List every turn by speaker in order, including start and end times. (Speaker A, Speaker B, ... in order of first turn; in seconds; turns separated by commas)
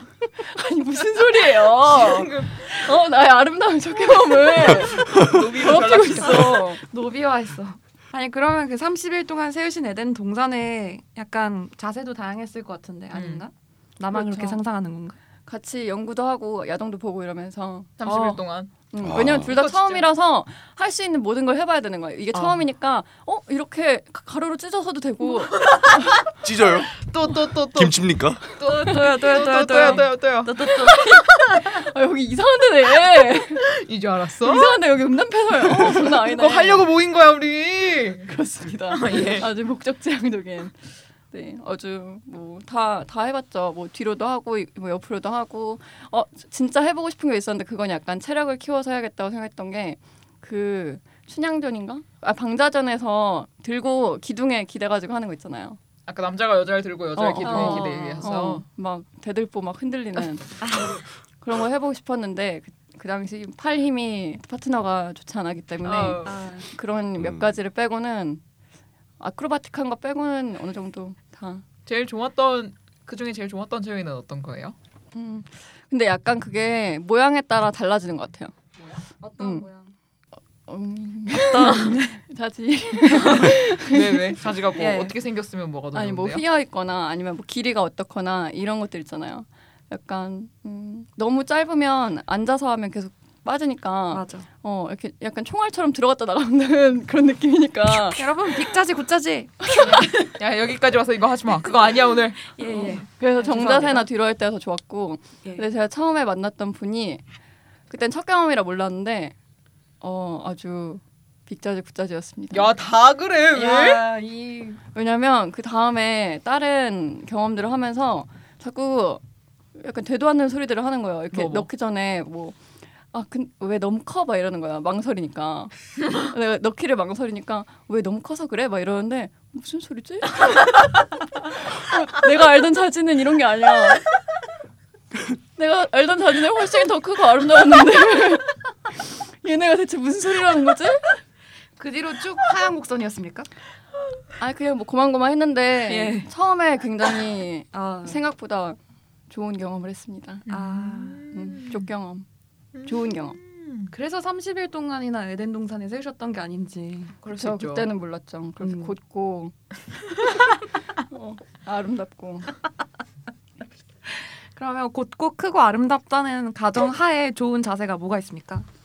Speaker A: 0.4-6.8, Speaker B: 1.8-2.9, Speaker B: 4.6-6.6, Speaker C: 6.0-15.2, Speaker B: 13.1-13.4, Speaker A: 14.1-14.6, Speaker A: 15.4-26.2, Speaker B: 18.0-18.7, Speaker D: 19.0-19.5, Speaker B: 19.2-20.1, Speaker B: 22.3-22.6, Speaker B: 25.7-26.0, Speaker D: 26.4-27.0, Speaker B: 27.0-28.0, Speaker D: 27.7-28.4, Speaker B: 28.6-31.0, Speaker C: 28.6-31.1, Speaker A: 28.9-30.0, Speaker A: 30.6-33.7, Speaker B: 33.7-34.8, Speaker A: 34.4-36.9, Speaker B: 35.6-38.3, Speaker A: 38.2-40.7, Speaker B: 38.9-39.5, Speaker A: 41.3-55.8, Speaker B: 56.1-58.6, Speaker A: 57.1-60.5, Speaker C: 57.4-58.3, Speaker C: 60.6-61.0, Speaker A: 61.4-68.4, Speaker B: 65.8-66.4, Speaker C: 66.2-66.7, Speaker D: 67.2-67.5, Speaker A: 69.2-71.6, Speaker B: 71.8-74.7, Speaker A: 75.1-78.5, Speaker C: 79.2-79.9, Speaker A: 79.4-79.7, Speaker A: 80.7-84.3, Speaker C: 81.4-82.2, Speaker B: 81.5-81.8, Speaker B: 83.1-86.4, Speaker C: 84.8-85.2, Speaker A: 85.9-98.3, Speaker C: 94.1-94.5, Speaker C: 97.9-100.0, Speaker A: 99.6-100.1, Speaker B: 99.8-103.0, Speaker C: 102.4-104.1, Speaker A: 102.7-107.2, Speaker A: 107.9-109.3, Speaker A: 110.0-112.7, Speaker B: 112.5-114.1, Speaker C: 113.5-114.8, Speaker A: 114.8-119.2, Speaker A: 119.7-122.5, Speaker B: 121.3-121.7, Speaker A: 123.1-130.8, Speaker A: 131.5-134.1, Speaker A: 135.6-141.2, Speaker C: 141.8-143.5, Speaker A: 144.4-148.8, Speaker C: 145.9-146.3, Speaker C: 147.7-148.2, Speaker A: 149.3-150.4, Speaker B: 150.5-151.8, Speaker C: 150.5-151.2, Speaker A: 151.3-152.2, Speaker B: 152.7-153.9, Speaker A: 152.8-153.4, Speaker C: 153.9-157.1, Speaker B: 157.2-157.9, Speaker A: 157.3-159.5, Speaker C: 158.6-158.9, Speaker A: 161.1-162.5, Speaker C: 164.1-168.7